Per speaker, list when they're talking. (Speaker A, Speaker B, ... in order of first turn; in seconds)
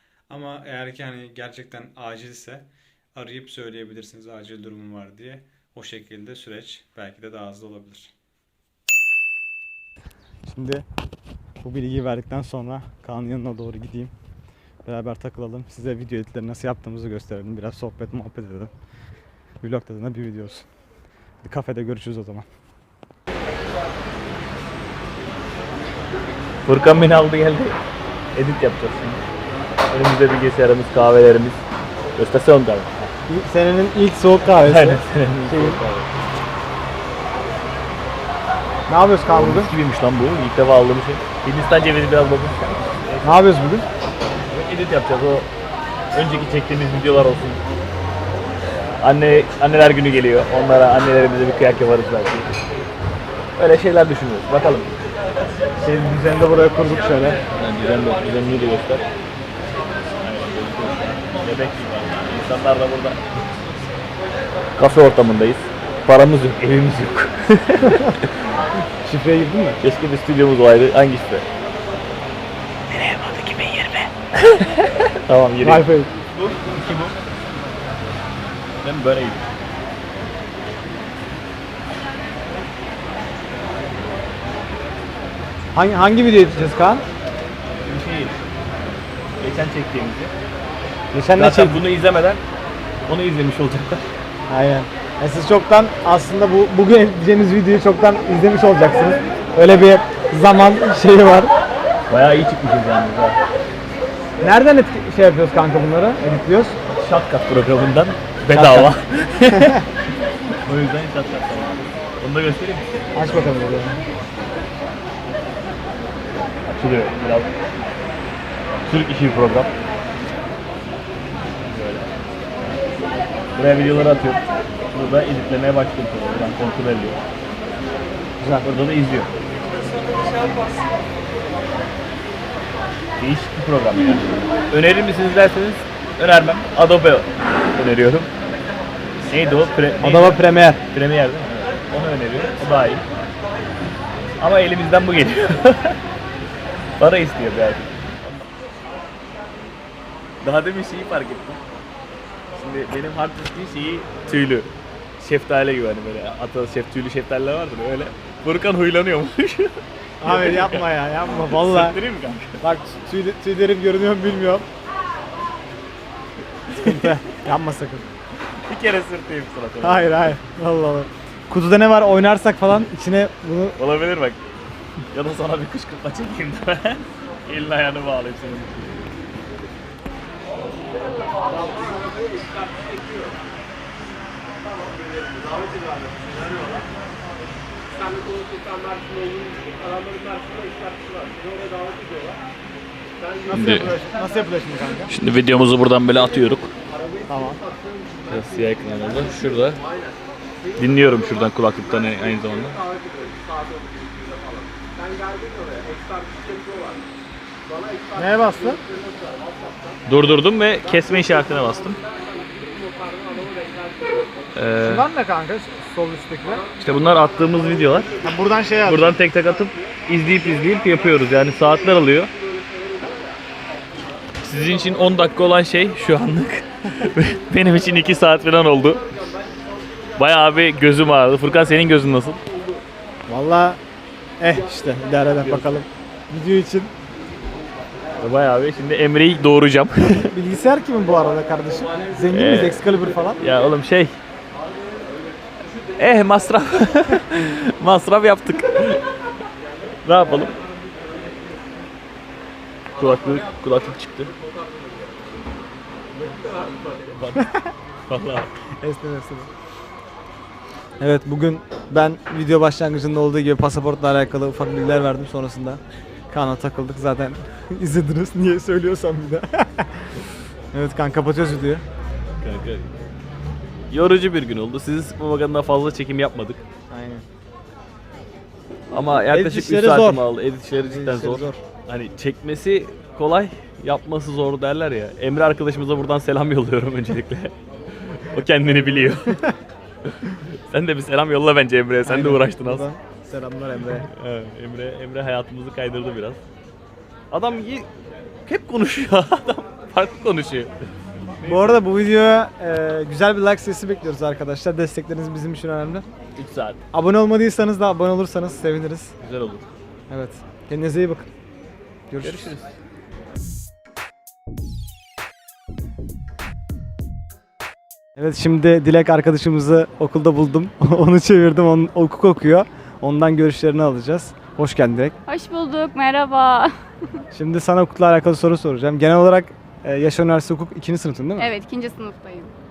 Speaker A: 0.3-8.1, 10.4-10.8, 11.6-14.1, 14.8-18.7, 19.6-20.7, 21.4-22.5, 33.3-35.8, 38.9-39.7, 43.2-43.9, 55.8-57.4, 69.0-69.8, 75.6-76.1, 85.7-87.0, 91.1-91.8, 94.5-101.5, 104.4-106.8, 108.5-108.9, 113.1-114.0, 128.4-128.7, 140.0-140.8, 160.2-162.0, 162.6-164.7, 166.7-168.1, 169.8-173.8, 193.5-195.1, 197.3-197.6, 208.1-208.8, 214.8-216.7, 218.2-219.1, 233.3-233.8, 234.4-236.9, 240.3-243.4, 258.8-259.5, 261.0-270.1, 270.7-271.8, 276.9-277.2, 279.3-280.3, 280.8-281.6, 292.1-294.1, 301.4-306.1, 306.9-309.1, 310.1-311.3, 312.1-312.5, 318.1-325.1, 327.3-331.5
Speaker B: 26.6-27.8, 28.3-29.2, 29.9-31.6, 32.1-33.1, 34.6-36.1, 39.3-43.4, 44.5-45.5, 46.1-47.6, 49.0-52.5, 53.6-54.9, 57.5-59.0, 60.2-63.2, 64.8-68.3, 69.8-71.5, 72.9-75.9, 76.4-77.2, 78.8-79.4, 87.8-88.3, 89.4-90.3, 91.3-92.4, 93.1-94.0, 102.1-103.4, 106.9-109.9, 110.6-113.5, 116.7-117.5, 118.8-119.7, 121.7-122.1, 123.5-127.2, 128.6-129.3, 133.2-138.3, 139.3-143.0, 144.4-146.0, 147.0-148.5, 150.4-151.6, 152.5-162.6, 166.7-167.2, 168.6-170.3, 173.8-174.4, 175.1-179.0, 193.5-193.9, 195.1-196.7, 198.3-199.8, 200.8-202.8, 210.1-212.0, 214.5-215.1, 216.8-218.1, 218.8-222.3, 224.4-229.1, 230.2-232.4, 235.4-235.7, 238.2-240.3, 242.3-244.2, 245.9-249.0, 250.0-250.6, 252.9-254.3, 257.1-257.4, 258.1-258.5, 272.4-272.9, 273.9-276.6, 278.9-289.5, 290.0-292.9, 293.9-296.4, 297.3-297.9, 298.4-300.7, 301.4-301.8, 306.4-306.8, 309.2-309.6, 312.2-312.7
Speaker C: 325.3-327.2, 331.4-332.5